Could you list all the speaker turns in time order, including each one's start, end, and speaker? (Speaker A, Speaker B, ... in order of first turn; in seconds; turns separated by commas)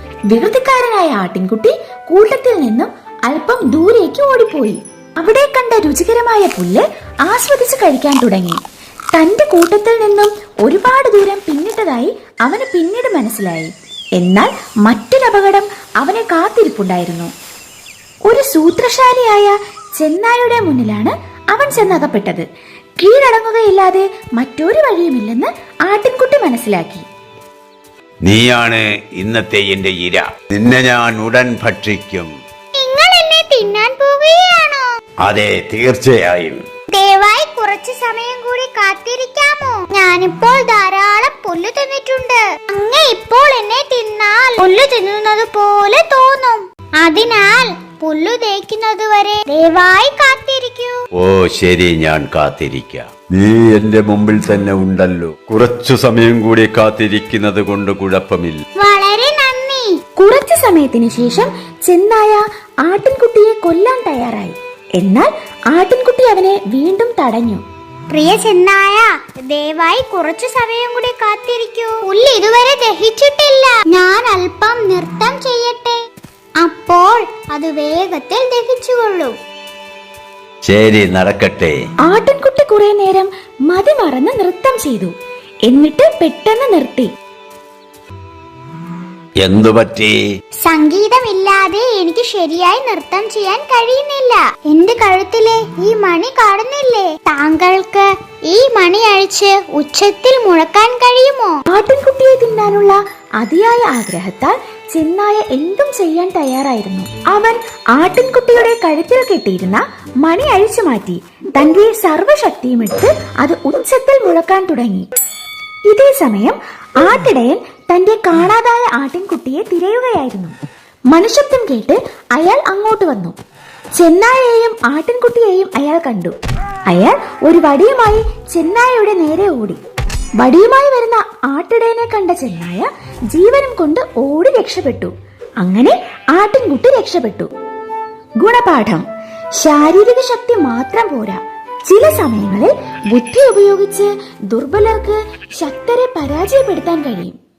Speaker A: 0.3-8.6, Speaker A: 9.1-17.3, Speaker A: 18.2-22.4, Speaker A: 23.0-27.1, Speaker B: 28.2-32.3, Speaker C: 32.8-34.8, Speaker B: 35.2-36.6, Speaker C: 36.9-51.0, Speaker B: 51.2-58.6, Speaker C: 58.8-59.9, Speaker A: 60.2-67.6, Speaker C: 68.1-76.0, Speaker C: 76.6-79.3, Speaker B: 80.7-81.8, Speaker A: 82.1-85.1, Speaker A: 85.7-87.1, Speaker B: 89.4-90.2, Speaker C: 90.7-101.6, Speaker A: 101.7-115.1, Speaker A: 115.9-120.5, Speaker A: 121.1-123.3, Speaker A: 124.0-126.3, Speaker A: 126.9-129.8, Speaker A: 130.4-137.5, Speaker A: 138.4-139.1, Speaker A: 139.6-147.3